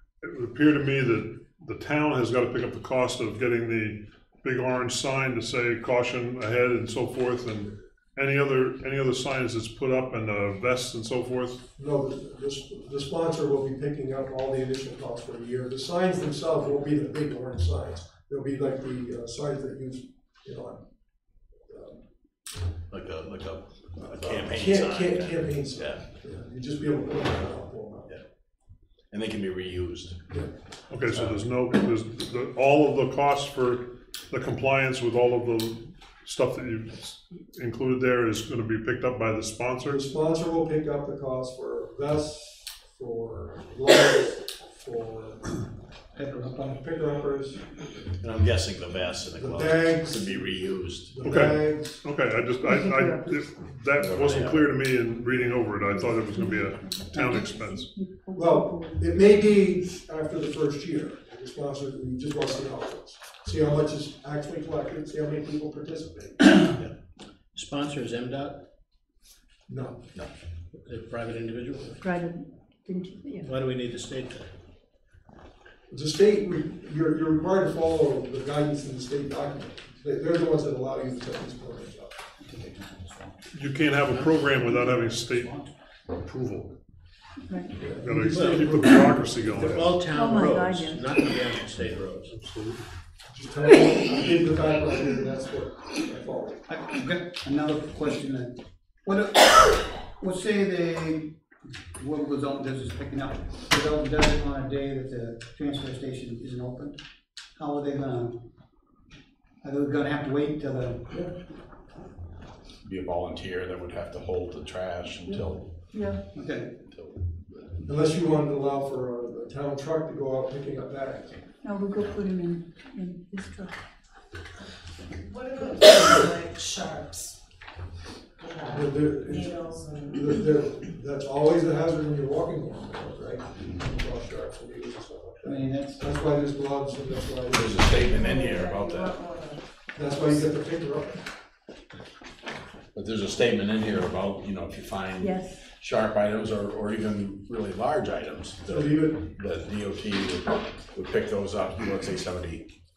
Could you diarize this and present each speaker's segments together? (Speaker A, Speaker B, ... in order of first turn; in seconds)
Speaker A: 0.2-11.7, 30.9-40.1, 51.2-57.9, 83.5-85.5, 86.1-86.8, 87.9-90.0, 92.3-92.8
Speaker B: 11.8-20.8, 21.7-22.0, 24.0-28.1, 39.8-45.6, 46.6-47.9, 49.4-50.5, 51.0-52.0, 58.3-66.7, 69.7-70.0, 75.9-82.2, 87.8-89.7, 93.3-96.6, 117.8-121.4, 128.6-137.9, 139.9-141.2, 148.7-149.2
Speaker C: 22.9-26.0, 29.1-30.3, 31.1-31.4, 48.2-51.2, 54.0-54.7, 112.8-115.7, 116.9-117.7, 137.5-139.2, 142.9-152.7
Speaker D: 46.1-46.8, 82.4-83.3, 85.2-85.6, 96.7-101.3, 102.0-107.0, 107.5-108.4, 109.6-111.2, 116.3-116.8, 135.4-136.0
Speaker E: 52.7-53.3, 56.1-59.1, 72.0-73.5, 87.5-87.9, 90.1-91.1, 115.9-116.2, 121.6-123.7, 145.2-145.6
Speaker F: 66.6-66.9, 67.5-68.7, 70.2-72.0, 73.4-74.5, 84.1-84.8, 88.2-92.3
Speaker G: 125.2-127.4, 128.4-130.3, 138.1-140.4